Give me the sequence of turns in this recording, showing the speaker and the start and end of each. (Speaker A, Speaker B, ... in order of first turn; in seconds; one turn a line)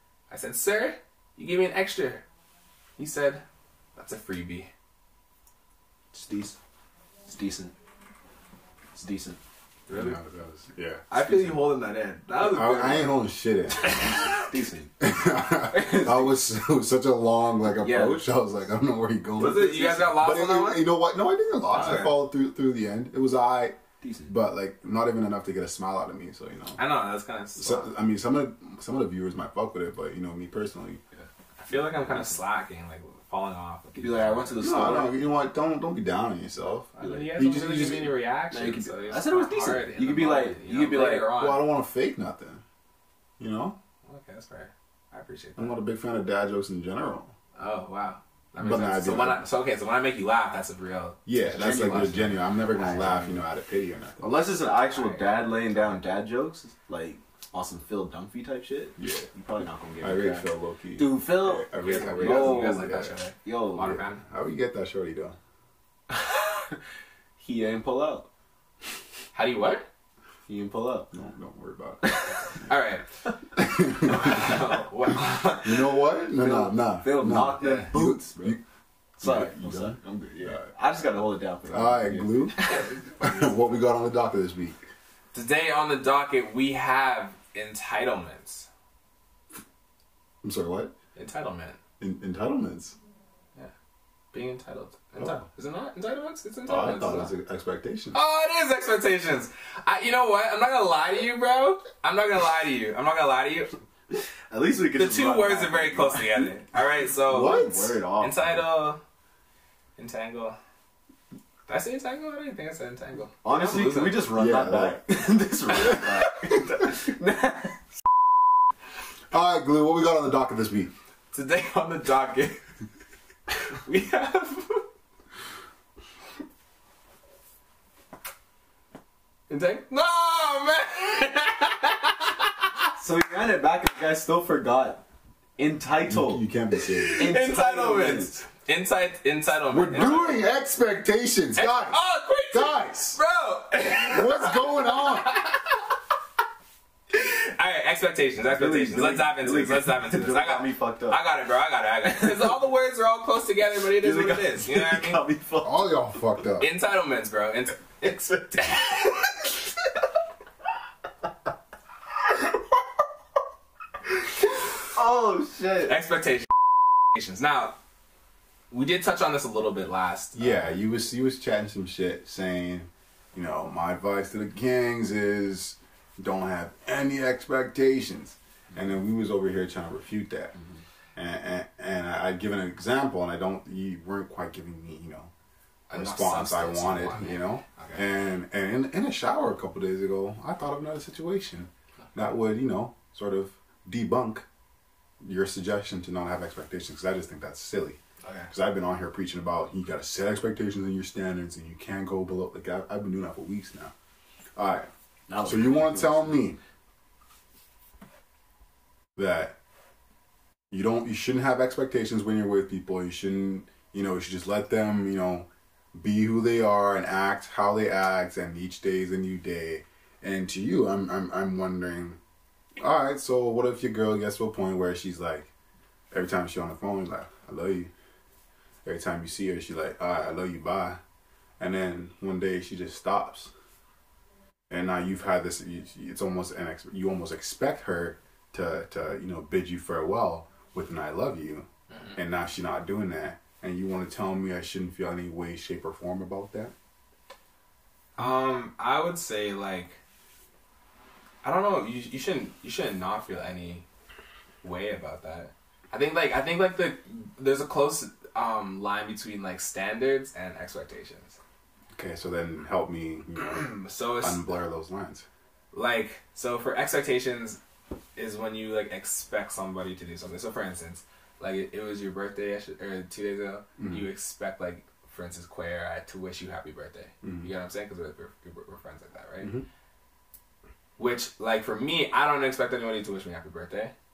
Speaker A: 0.3-2.2
Speaker A: 3.0-3.4
Speaker A: 4.0-4.7
Speaker B: 6.1-6.6
Speaker B: 7.3-7.7
Speaker B: 8.9-10.2
Speaker C: 9.9-11.0
Speaker A: 11.1-13.1
Speaker B: 11.2-11.6
Speaker C: 12.4-14.1
Speaker A: 13.8-14.5
Speaker B: 13.8-14.9
Speaker C: 15.0-26.8
Speaker B: 15.7-16.3
Speaker B: 17.8-18.2
Speaker A: 19.4-20.9
Speaker A: 21.7-22.2
Speaker B: 24.0-24.3
Speaker A: 26.8-27.9
Speaker C: 27.6-31.0
Speaker A: 31.6-35.0
Speaker B: 34.0-35.1
Speaker C: 34.6-38.1
Speaker A: 37.0-41.6
Speaker B: 37.0-37.3
Speaker B: 38.5-41.3
Speaker C: 41.3-42.6
Speaker C: 43.4-43.8
Speaker A: 44.1-45.8
Speaker C: 45.6-47.3
Speaker A: 47.6-53.4
Speaker C: 48.6-49.5
Speaker C: 51.3-54.3
Speaker B: 51.5-52.2
Speaker B: 52.8-53.2
Speaker B: 54.2-64.0
Speaker A: 54.9-56.0
Speaker C: 59.0-59.3
Speaker C: 60.0-63.2
Speaker A: 61.8-64.2
Speaker C: 63.9-65.4
Speaker B: 66.2-66.8
Speaker B: 67.4-68.3
Speaker A: 69.3-69.8
Speaker B: 70.5-71.1
Speaker C: 71.1-72.2
Speaker B: 72.0-72.5
Speaker A: 72.7-73.2
Speaker C: 73.6-74.6
Speaker A: 74.0-75.8
Speaker B: 75.1-75.7
Speaker C: 75.6-78.6
Speaker B: 76.3-78.6
Speaker A: 77.6-77.9
Speaker B: 79.2-82.7
Speaker C: 79.2-80.6
Speaker C: 81.7-82.7
Speaker A: 82.6-83.7
Speaker C: 83.2-84.8
Speaker A: 85.3-88.7
Speaker C: 90.4-90.9
Speaker A: 91.2-91.8
Speaker C: 92.0-93.0
Speaker A: 94.3-97.3
Speaker C: 96.7-98.2
Speaker A: 98.1-103.8
Speaker B: 104.5-106.5
Speaker A: 105.0-107.7
Speaker C: 107.3-108.0
Speaker B: 107.3-108.6
Speaker A: 108.2-109.0
Speaker A: 110.0-110.6
Speaker A: 111.7-114.3
Speaker B: 113.4-117.8
Speaker C: 114.3-115.0
Speaker C: 115.8-116.1
Speaker C: 119.3-120.9
Speaker A: 121.3-122.6
Speaker A: 123.6-124.8
Speaker A: 129.5-132.7
Speaker B: 133.0-135.0
Speaker B: 135.6-136.4
Speaker C: 136.1-137.3
Speaker A: 136.9-140.5
Speaker B: 137.2-138.4
Speaker C: 139.7-142.0
Speaker A: 141.6-145.9
Speaker C: 142.5-143.2
Speaker C: 144.1-145.3
Speaker A: 147.1-155.2
Speaker B: 148.4-151.2
Speaker B: 154.0-155.9
Speaker C: 155.6-156.7
Speaker A: 156.6-159.5
Speaker B: 164.9-166.0
Speaker A: 165.9-167.8
Speaker A: 168.7-170.7
Speaker C: 170.3-180.5
Speaker C: 181.2-185.3
Speaker A: 185.9-188.0
Speaker C: 185.9-194.5
Speaker C: 195.2-198.0
Speaker A: 198.2-198.5
Speaker C: 198.5-203.9
Speaker C: 204.6-204.9
Speaker B: 205.3-206.4
Speaker C: 205.4-206.6
Speaker C: 209.2-209.6
Speaker C: 210.7-222.2
Speaker C: 222.8-225.5
Speaker C: 226.1-227.9
Speaker C: 228.8-231.0
Speaker C: 231.6-233.5
Speaker C: 234.7-246.7
Speaker A: 241.9-242.2
Speaker A: 248.2-250.0
Speaker A: 251.4-253.8
Speaker A: 254.6-261.4
Speaker C: 261.9-265.3
Speaker A: 263.5-264.4
Speaker A: 265.7-267.6
Speaker A: 268.2-279.5
Speaker C: 273.8-274.1
Speaker C: 277.2-277.5
Speaker C: 279.4-279.7
Speaker A: 281.0-283.9